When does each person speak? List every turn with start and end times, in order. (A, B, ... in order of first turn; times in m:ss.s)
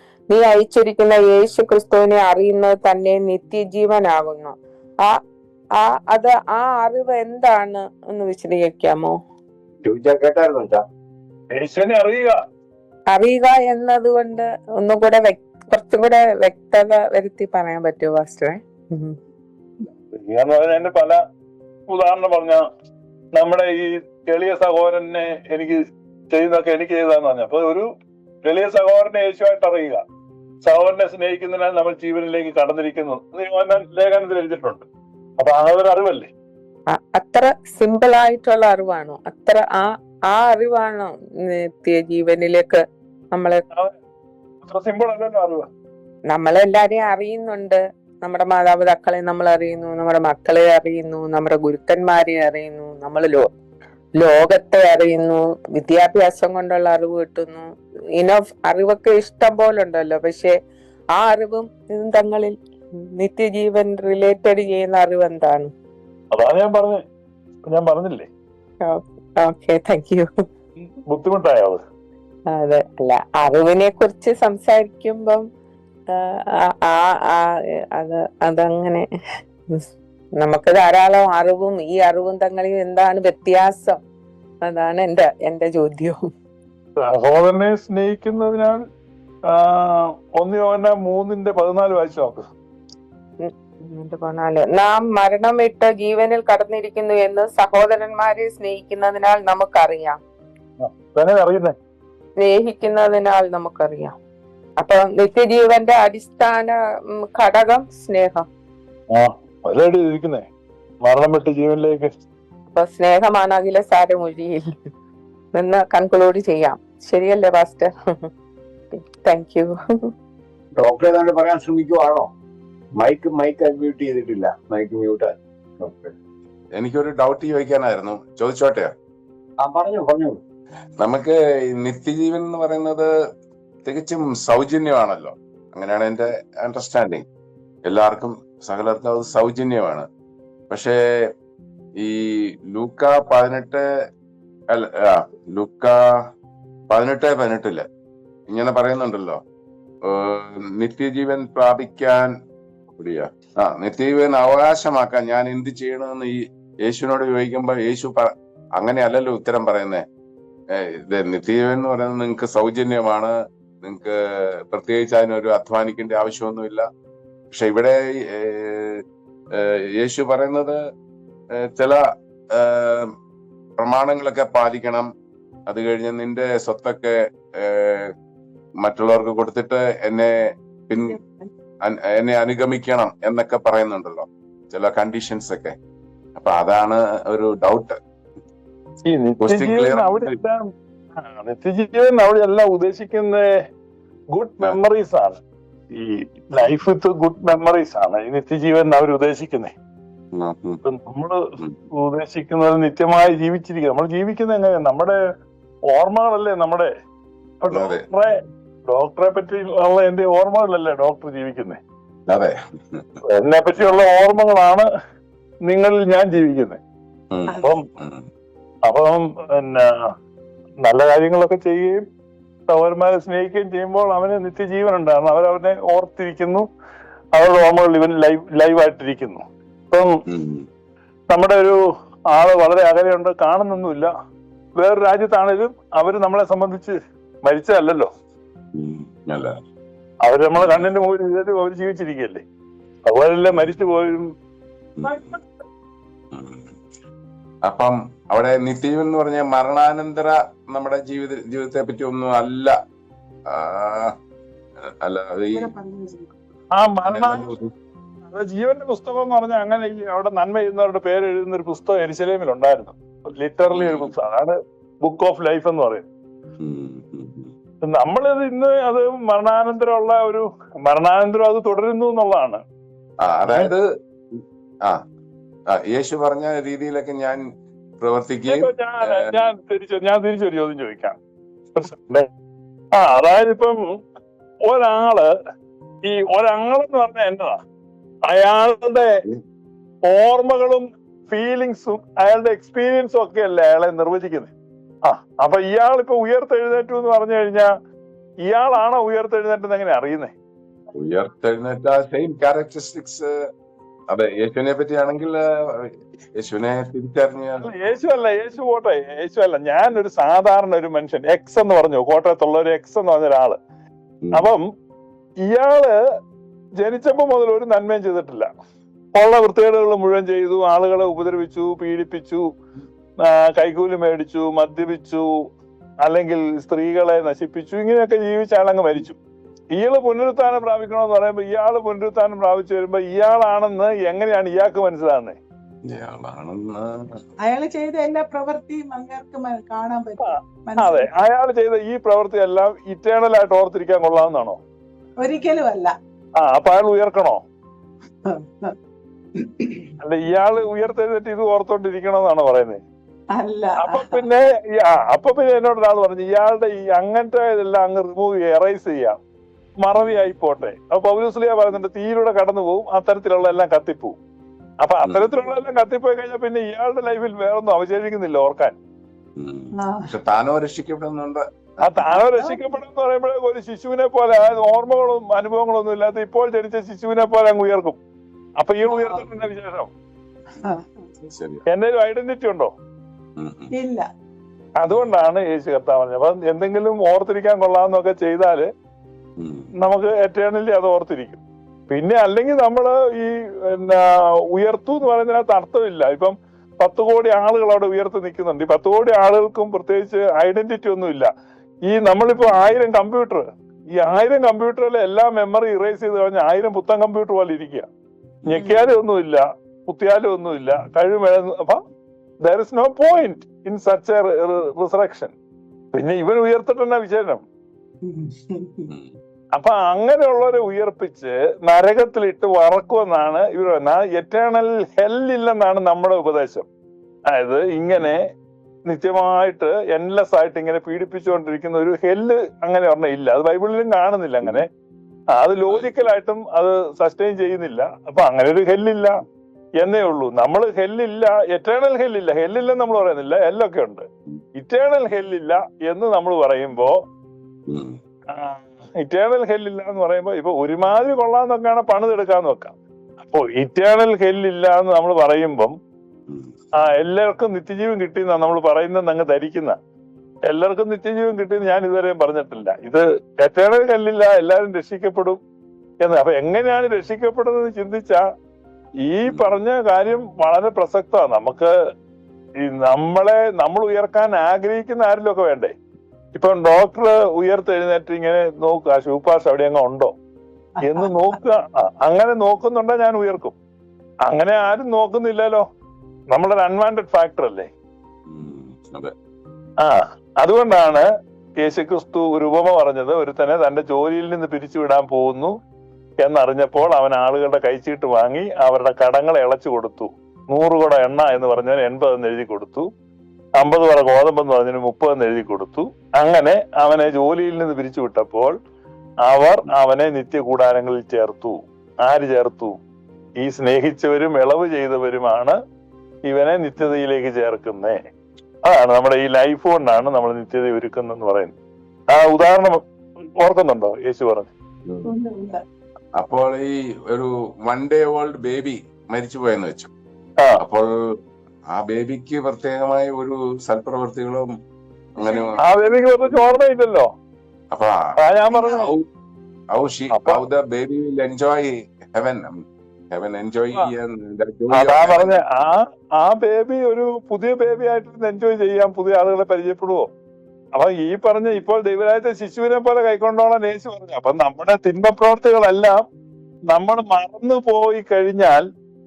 0:00.3-0:05.2 A
0:05.7-0:09.2 A
0:09.8-0:10.8 B
0:11.5-0:12.4 C
0:13.1-0:19.2 A
0:20.1-0:21.2 C
0:21.9-0:22.6 C
0:23.4-0:25.8 C
0:26.3-0:27.9 C
0:28.4-0:30.0 C
0:30.6-0:34.9 C
0:35.4-0:36.3 C
0:36.9-0:43.6 A
0:44.6-0:45.7 C
0:46.3-0:53.5 A
0:54.1-1:00.6 A
1:01.1-1:05.7 A
1:06.3-1:07.0 C
1:07.7-1:08.3 C
1:08.8-1:10.3 A
1:11.1-1:11.8 C
1:12.5-1:15.4 A
1:16.1-1:19.1 A
1:19.7-1:24.0 A
1:24.6-1:26.3 A
1:27.0-1:28.8 C
1:29.5-1:32.4 C
1:33.4-1:40.2 A
1:40.8-1:41.7 C
1:42.4-1:44.2 A
1:44.8-1:48.5 A
1:49.1-1:50.5 C
1:51.0-1:52.1 C
1:52.7-1:54.7 A
1:55.5-1:58.3 A
1:58.9-1:59.8 A
2:00.8-2:02.3 B
2:03.0-2:06.1 B
2:06.8-2:08.9 D
2:09.6-2:10.4 B
2:11.0-2:13.1 D
2:13.8-2:17.2 D
2:17.9-2:20.1 D
2:20.7-2:21.0 D
2:22.7-2:23.8 D
2:24.7-2:26.0 D
2:26.9-2:27.8 D
2:28.5-2:29.4 D
2:30.1-2:32.3 D
2:32.9-2:40.0 D
2:40.7-2:43.3 D
2:43.8-2:44.2 D
2:44.7-2:46.8 D
2:47.5-2:49.0 D
2:49.5-2:50.8 D
2:51.6-2:52.0 D
2:52.5-2:53.1 D
2:53.8-2:55.1 D
2:55.7-2:58.1 D
2:58.8-3:00.3 D
3:00.9-3:01.2 D
3:00.9-3:01.5 E
3:01.8-3:05.8 D
3:06.4-3:08.0 D
3:09.1-3:10.6 C
3:09.4-3:10.4 D
3:11.2-3:13.5 C
3:14.3-3:15.4 C
3:15.9-3:19.7 C
3:20.3-3:20.8 D
3:20.8-3:25.2 C
3:25.9-3:26.9 C
3:27.6-3:31.8 C
3:27.7-3:28.1 D
3:32.3-3:33.2 D
3:33.2-3:34.9 C
3:33.8-3:34.0 D
3:35.7-3:36.8 C
3:37.3-3:38.3 D
3:37.5-3:37.8 E
3:37.6-3:37.8 C
3:38.9-3:40.1 C
3:40.8-3:42.0 C
3:42.7-3:46.6 C
3:47.3-3:50.1 C
3:50.3-3:50.7 D
3:51.3-3:51.8 C
3:52.3-3:54.1 C
3:54.8-3:58.1 C
3:58.8-3:59.5 D
4:00.2-4:02.4 C
4:00.6-4:00.9 D
4:03.0-4:04.3 C
4:03.5-4:03.8 D
4:05.0-4:05.4 D
4:06.3-4:06.7 D
4:07.7-4:12.7 D
4:13.5-4:14.1 D
4:14.9-4:15.7 D
4:15.5-4:16.3 E
4:16.7-4:17.6 C
4:17.1-4:17.7 D
4:18.3-4:26.0 C
4:23.7-4:24.1 D
4:26.6-4:27.5 D
4:27.8-4:32.6 C
4:33.2-4:33.8 D
4:34.3-4:35.0 D
4:35.7-4:37.4 D
4:38.0-4:39.5 D
4:38.5-4:41.2 C
4:41.7-4:42.3 C
4:43.0-4:43.8 C
4:44.6-4:45.3 C
4:46.1-4:47.6 C
4:48.3-4:49.2 C
4:50.1-4:54.5 C
4:55.0-4:57.7 C
4:58.5-5:00.3 C
5:00.9-5:03.3 D
5:04.1-5:07.7 D
5:07.6-5:13.6 C
5:14.2-5:14.5 D
5:14.3-5:14.6 C
5:15.4-5:16.0 C
5:16.8-5:18.5 C
5:19.2-5:22.4 C
5:23.3-5:25.2 C
5:26.0-5:29.2 C
5:29.7-5:35.4 C
5:35.8-5:37.2 D
5:37.4-5:41.1 E
5:40.2-5:44.6 C
5:45.2-5:45.9 E
5:46.4-5:47.4 C
5:48.3-5:48.7 E
5:49.4-5:49.8 E
5:50.0-5:52.8 C
5:53.4-5:54.3 E
5:53.8-5:59.2 C
5:59.8-6:04.2 C
6:00.0-6:00.3 D
6:04.8-6:08.8 C
6:05.0-6:05.4 D
6:09.4-6:12.2 D
6:09.7-6:10.1 E
6:11.8-6:18.0 C
6:12.1-6:12.8 E
6:18.6-6:19.9 C
6:18.9-6:19.3 E
6:20.6-6:20.8 E
6:21.3-6:21.6 D
6:21.7-6:22.7 C
6:23.4-6:23.7 D
6:23.7-6:24.1 E
6:24.8-6:28.7 C
6:29.4-6:29.7 D
6:29.8-6:34.0 C
6:34.5-6:41.3 C
6:41.9-6:47.9 C
6:48.5-6:51.8 C
6:52.4-6:55.3 C
6:55.9-6:57.4 C
6:58.1-6:58.9 E
6:58.9-6:59.2 D
6:59.6-7:06.7 C
7:07.3-7:08.2 C
7:08.9-7:14.7 C
7:15.3-7:19.2 C
7:15.7-7:16.2 D
7:19.8-7:24.0 C
7:24.6-7:26.9 C
7:27.7-7:28.0 D
7:28.3-7:35.7 C
7:36.3-7:36.5 D
7:36.8-7:39.8 C
7:40.5-7:45.4 C
7:46.0-7:48.2 C
7:49.1-7:51.7 C
7:49.3-7:49.6 D
7:52.6-7:55.7 C
7:56.4-8:00.1 C
8:00.8-8:03.6 C
8:04.2-8:05.6 C
8:06.3-8:07.7 C
8:08.3-8:09.1 D
8:09.8-8:11.0 C
8:11.6-8:15.5 C
8:16.2-8:22.9 C
8:23.6-8:28.5 C
8:29.2-8:32.8 C
8:33.4-8:35.6 C
8:36.3-8:38.0 C
8:38.6-8:41.5 C
8:42.1-8:42.8 C
8:43.4-8:44.5 C
8:44.9-8:45.1 D
8:45.0-8:45.6 E
8:46.2-8:49.9 D
8:50.6-8:50.9 D
8:51.7-8:54.5 D
8:55.2-8:56.6 D
8:55.2-8:55.6 E
8:55.6-8:57.1 C
8:57.7-8:58.0 D
8:58.2-8:58.8 C
8:58.5-8:58.9 E
8:58.7-8:59.0 D
8:59.7-9:02.5 D
9:00.1-9:00.4 C
9:03.1-9:05.4 D
9:04.7-9:10.1 C
9:10.8-9:16.0 C
9:16.7-9:18.6 C